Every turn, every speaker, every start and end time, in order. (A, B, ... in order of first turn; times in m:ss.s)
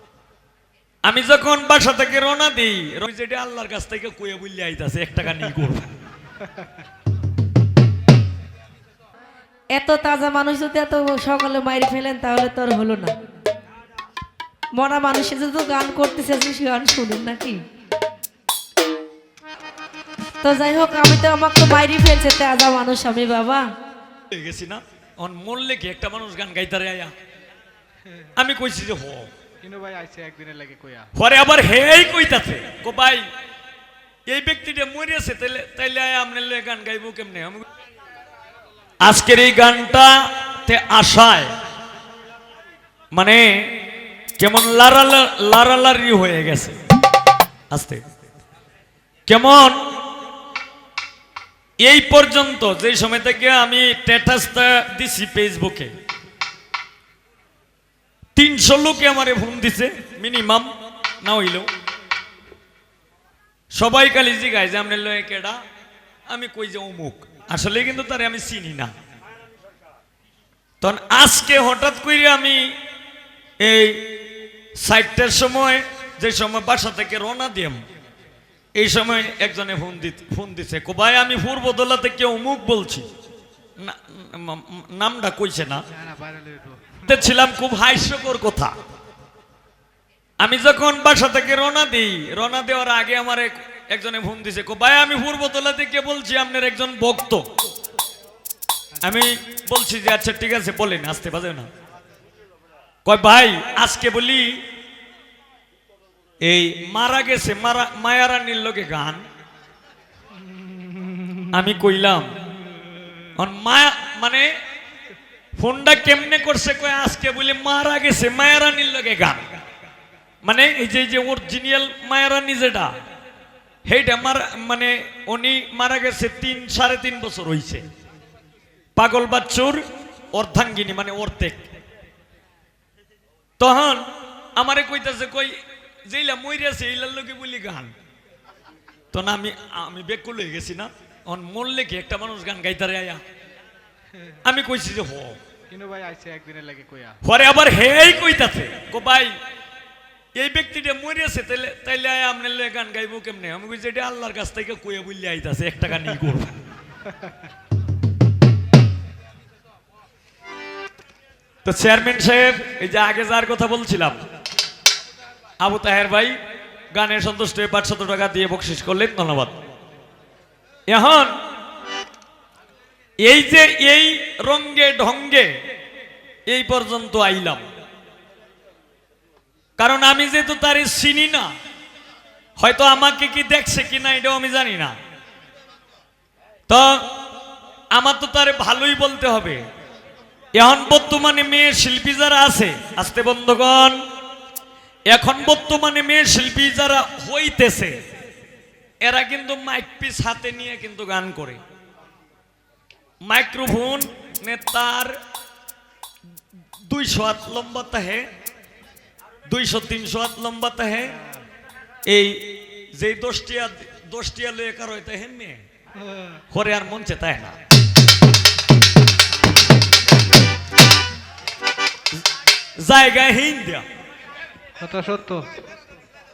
0:01.0-0:05.9 A
0:06.4-0:06.8 B
0:09.8-0:13.1 C
0:14.8-0:17.6 C
0:20.4-0:23.6 C
0:24.3-0:27.1 A
0:28.4-0:29.3 A
0:29.6-0:31.1 B
0:31.2-0:33.2 A
0:34.3-0:37.6 A
0:39.0-0:41.5 A
0:43.1-0:43.7 A
0:44.4-0:46.8 A
0:47.7-0:48.0 A
0:49.3-0:49.8 A
0:51.8-0:55.9 A
0:58.4-1:00.7 A
1:01.2-1:01.7 A
1:03.7-1:05.6 A
1:06.3-1:08.9 A
1:10.8-1:12.7 A
1:13.6-1:14.0 A
1:14.8-1:17.8 A
1:18.8-1:23.0 A
1:23.8-1:25.8 A
1:25.9-1:27.0 B
1:27.1-1:28.7 A
1:30.4-1:37.4 A
1:39.0-1:41.7 A
1:43.0-1:44.6 A
1:46.4-1:49.2 A
1:51.5-1:52.3 A
1:53.4-1:54.5 A
1:55.6-1:59.4 A
2:00.4-2:02.9 A
2:03.9-2:07.8 A
2:09.0-2:09.8 A
2:10.3-2:11.6 A
2:13.6-2:14.0 A
2:14.6-2:15.6 A
2:16.1-2:17.9 A
2:19.1-2:23.2 A
2:24.4-2:25.4 A
2:25.7-2:27.2 B
2:27.2-2:29.3 A
2:30.4-2:36.5 A
2:37.0-2:37.4 B
2:41.6-2:44.2 A
2:45.6-2:46.4 A
2:46.9-2:49.6 A
2:50.9-2:51.3 A
2:53.2-2:55.5 A
2:56.5-2:57.6 A
2:59.8-3:01.5 A
3:02.6-3:05.0 A
3:06.7-3:07.0 A
3:07.9-3:09.6 A
3:10.6-3:14.0 A
3:15.1-3:17.9 A
3:19.0-3:21.6 A
3:23.2-3:25.2 A
3:26.8-3:28.3 A
3:29.5-3:31.2 A
3:32.1-3:35.6 A
3:36.0-3:36.4 B
3:36.5-3:37.6 A
3:42.8-3:43.8 A
3:44.8-3:45.5 B